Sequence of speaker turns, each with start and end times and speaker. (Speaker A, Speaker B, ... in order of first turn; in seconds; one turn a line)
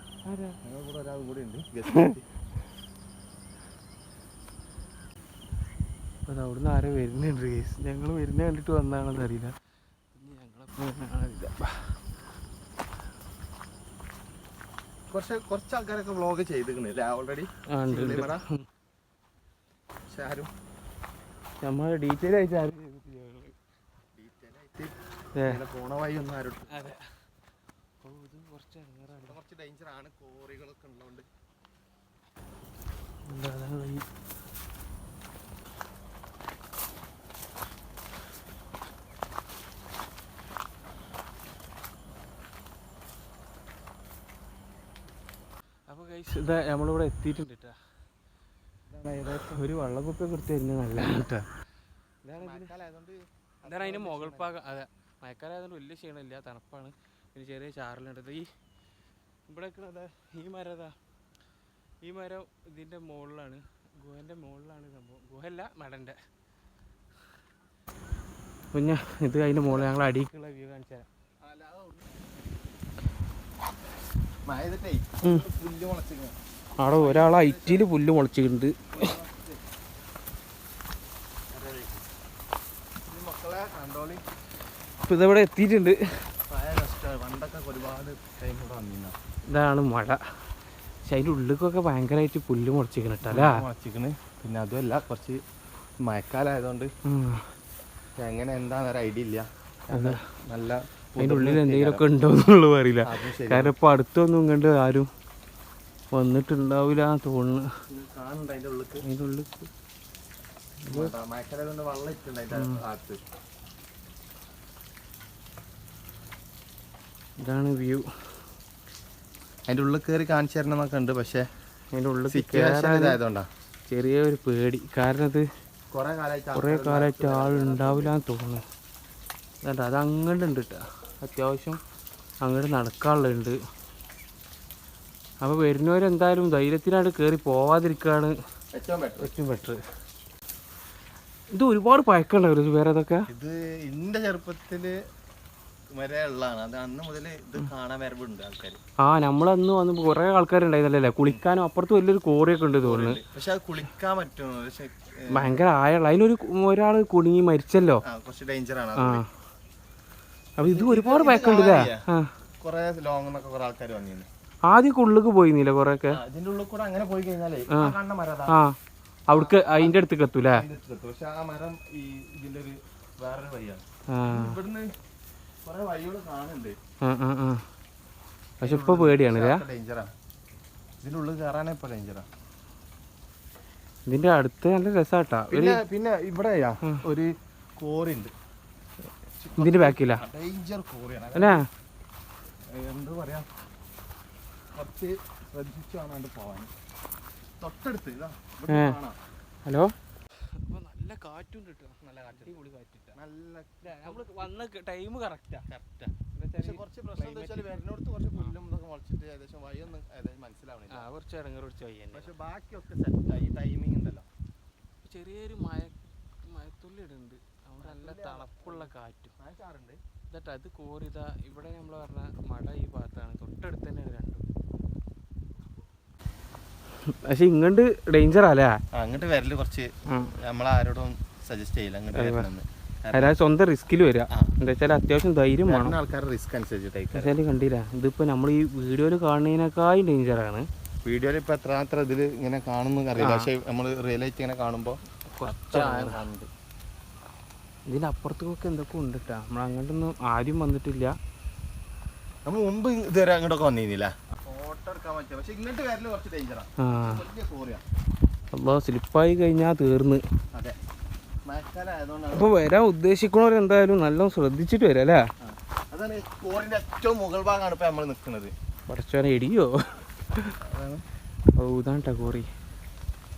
Speaker A: 0.2-0.6
Speaker B: 0.6-2.2
Speaker A: 6.3-9.5
Speaker A: 10.1-12.0
Speaker B: 15.1-18.4
Speaker A: 17.7-18.6
Speaker B: 20.1-20.5
Speaker A: 21.6-23.6
Speaker B: 24.2-26.9
Speaker A: 25.4-25.6
Speaker A: 26.7-27.0
Speaker A: 28.0-29.4
Speaker B: 29.1-31.3
Speaker A: 33.3-34.0
Speaker A: 45.9-47.8
Speaker B: 48.9-49.5
Speaker A: 49.1-51.4
Speaker A: 52.2-52.7
Speaker B: 52.4-54.6
Speaker A: 53.6-58.5
Speaker A: 59.5-61.0
Speaker A: 62.0-66.2
Speaker A: 68.7-71.1
Speaker B: 69.7-69.9
Speaker B: 71.4-72.3
Speaker B: 74.4-77.9
Speaker A: 76.8-79.1
Speaker B: 78.9-79.6
Speaker B: 81.5-82.1
Speaker B: 83.1-84.2
Speaker A: 85.0-86.3
Speaker B: 86.5-89.2
Speaker A: 89.5-90.2
Speaker A: 91.1-93.7
Speaker B: 93.2-95.4
Speaker B: 96.0-96.9
Speaker A: 97.0-97.4
Speaker B: 98.2-102.1
Speaker A: 99.9-100.2
Speaker A: 101.2-105.1
Speaker B: 103.0-103.8
Speaker A: 106.1-107.7
Speaker B: 107.9-109.0
Speaker A: 109.0-109.7
Speaker A: 110.8-111.1
Speaker B: 110.9-113.2
Speaker A: 112.5-112.8
Speaker A: 117.4-118.0
Speaker B: 119.7-121.5
Speaker A: 121.9-123.2
Speaker B: 122.3-123.5
Speaker A: 123.9-125.5
Speaker B: 125.9-128.1
Speaker A: 126.5-128.6
Speaker A: 129.6-131.8
Speaker A: 132.4-133.6
Speaker A: 135.4-138.3
Speaker B: 138.7-139.3
Speaker A: 139.2-139.8
Speaker A: 141.5-143.3
Speaker B: 143.3-145.0
Speaker B: 145.9-148.8
Speaker A: 149.0-153.2
Speaker B: 152.8-155.6
Speaker A: 155.3-158.0
Speaker B: 158.0-159.2
Speaker A: 159.0-159.2
Speaker A: 160.6-162.3
Speaker B: 160.6-162.0
Speaker B: 162.6-164.3
Speaker A: 164.7-166.2
Speaker B: 166.1-168.6
Speaker A: 167.7-167.9
Speaker A: 168.5-168.7
Speaker A: 169.3-170.7
Speaker B: 169.3-174.9
Speaker A: 174.1-174.6
Speaker B: 175.6-176.8
Speaker A: 177.0-177.6
Speaker B: 178.6-180.1
Speaker A: 178.6-179.6
Speaker B: 181.0-182.3
Speaker A: 184.1-185.8
Speaker B: 185.5-188.3
Speaker B: 189.4-191.6
Speaker A: 189.6-190.2
Speaker A: 191.3-191.7
Speaker B: 192.7-193.5
Speaker B: 194.7-196.7
Speaker B: 197.6-199.2
Speaker A: 198.7-199.0
Speaker A: 199.7-203.2
Speaker B: 202.0-202.6
Speaker B: 203.1-204.6
Speaker A: 203.8-205.7
Speaker B: 205.7-211.1
Speaker A: 206.3-207.8
Speaker A: 210.9-212.3
Speaker B: 212.1-214.3
Speaker A: 215.0-215.9
Speaker A: 216.5-219.3
Speaker B: 217.8-220.0
Speaker A: 220.3-224.5
Speaker A: 227.0-228.8
Speaker B: 228.9-233.3
Speaker A: 230.1-230.3
Speaker A: 232.1-232.5
Speaker A: 233.1-235.9
Speaker B: 235.6-237.3
Speaker A: 237.1-240.6
Speaker B: 241.1-246.5
Speaker A: 243.2-243.5
Speaker A: 245.3-246.2
Speaker A: 247.9-251.1
Speaker B: 252.5-257.8
Speaker A: 256.8-257.2
Speaker A: 258.5-260.2
Speaker B: 261.5-262.5
Speaker A: 262.3-265.2
Speaker B: 265.4-268.5
Speaker A: 268.9-270.6
Speaker B: 270.6-271.0
Speaker A: 271.6-272.5